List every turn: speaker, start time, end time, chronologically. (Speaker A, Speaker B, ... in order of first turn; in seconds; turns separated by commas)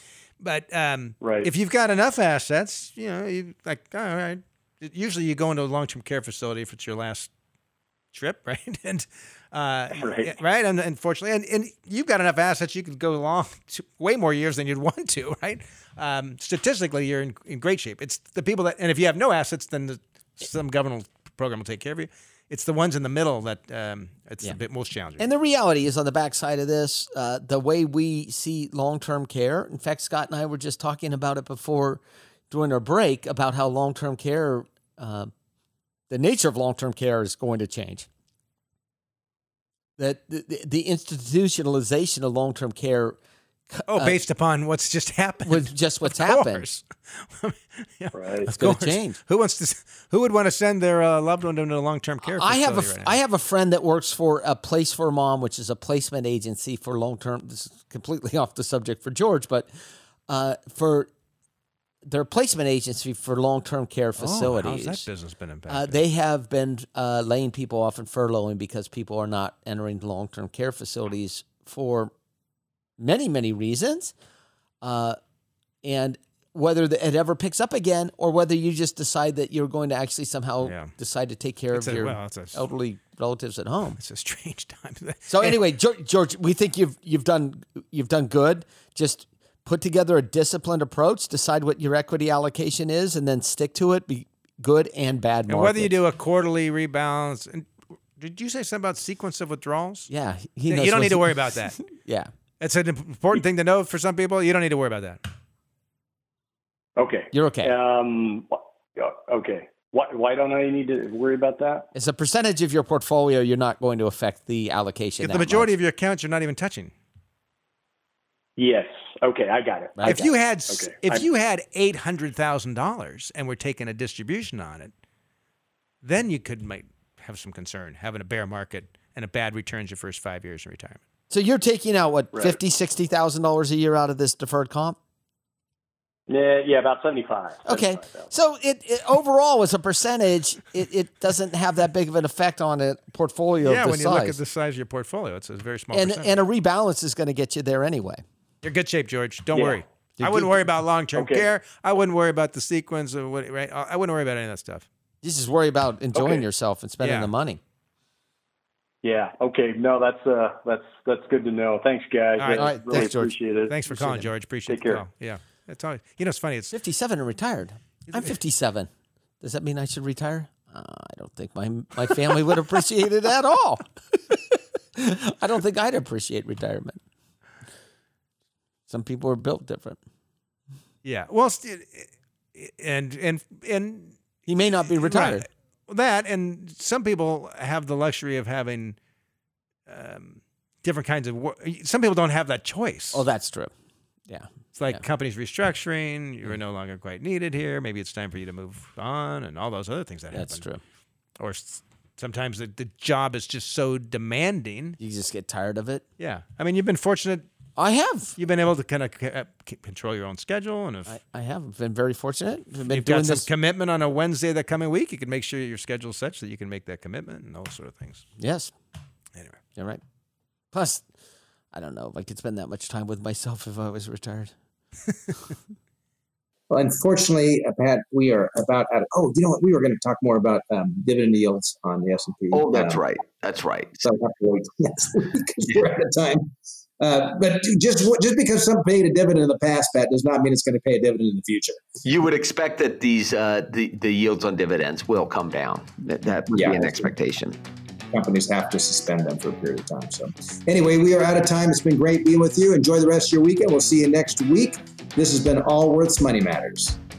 Speaker A: 0.4-7.3, Speaker B: 1.2-1.5, Speaker A: 8.1-25.3, Speaker B: 10.0-10.3, Speaker C: 25.2-35.3, Speaker C: 36.1-38.1, Speaker C: 40.0-43.2, Speaker C: 43.7-44.2, Speaker A: 43.9-53.1, Speaker C: 45.4-46.7, Speaker B: 48.1-48.5, Speaker C: 48.5-49.2, Speaker C: 52.2-59.7, Speaker C: 60.3-61.1, Speaker C: 62.0-65.0, Speaker A: 64.2-66.0, Speaker C: 65.7-72.1, Speaker C: 73.0-74.1, Speaker C: 74.8-75.2, Speaker C: 75.8-84.0, Speaker A: 80.6-80.9, Speaker A: 81.7-82.6, Speaker A: 84.0-85.6, Speaker C: 85.3-95.9, Speaker A: 95.5-100.1, Speaker C: 100.1-102.3, Speaker A: 100.7-101.8, Speaker A: 102.6-105.2, Speaker B: 107.0-111.9, Speaker C: 107.3-107.7, Speaker C: 111.9-115.7, Speaker A: 115.2-116.9, Speaker B: 118.6-121.2, Speaker C: 120.0-120.3, Speaker A: 120.0-124.9, Speaker A: 126.0-131.0, Speaker C: 131.3-135.0, Speaker B: 132.3-132.6, Speaker B: 136.3-138.3, Speaker C: 137.6-144.4, Speaker A: 143.6-146.3, Speaker C: 145.9-148.2, Speaker A: 148.6-154.9, Speaker B: 149.5-149.8, Speaker C: 150.2-150.7, Speaker B: 151.2-151.5, Speaker C: 155.2-157.6, Speaker B: 156.1-156.5, Speaker A: 157.0-157.3, Speaker B: 159.0-163.7, Speaker A: 162.4-163.1, Speaker C: 162.5-163.4, Speaker A: 163.7-166.7, Speaker C: 163.9-164.3, Speaker B: 164.7-165.0, Speaker C: 166.7-168.9, Speaker A: 168.1-168.3, Speaker C: 169.4-177.0, Speaker C: 178.9-180.0, Speaker A: 181.0-184.2, Speaker C: 184.5-185.4, Speaker A: 185.0-189.0, Speaker A: 189.9-193.2, Speaker C: 193.1-193.7, Speaker C: 194.3-195.0, Speaker A: 194.8-200.6, Speaker C: 200.3-200.8, Speaker A: 201.4-205.0, Speaker C: 205.0-206.0, Speaker A: 206.2-207.5, Speaker C: 207.8-208.4, Speaker A: 208.4-211.2, Speaker C: 211.1-213.5, Speaker A: 212.9-218.2, Speaker C: 218.4-218.7, Speaker C: 219.8-220.0, Speaker C: 220.7-221.1, Speaker C: 221.7-224.5, Speaker D: 226.7-233.0, Speaker E: 232.5-234.0, Speaker D: 234.0-241.9, Speaker E: 242.0-247.6, Speaker D: 246.5-247.0, Speaker D: 248.1-257.0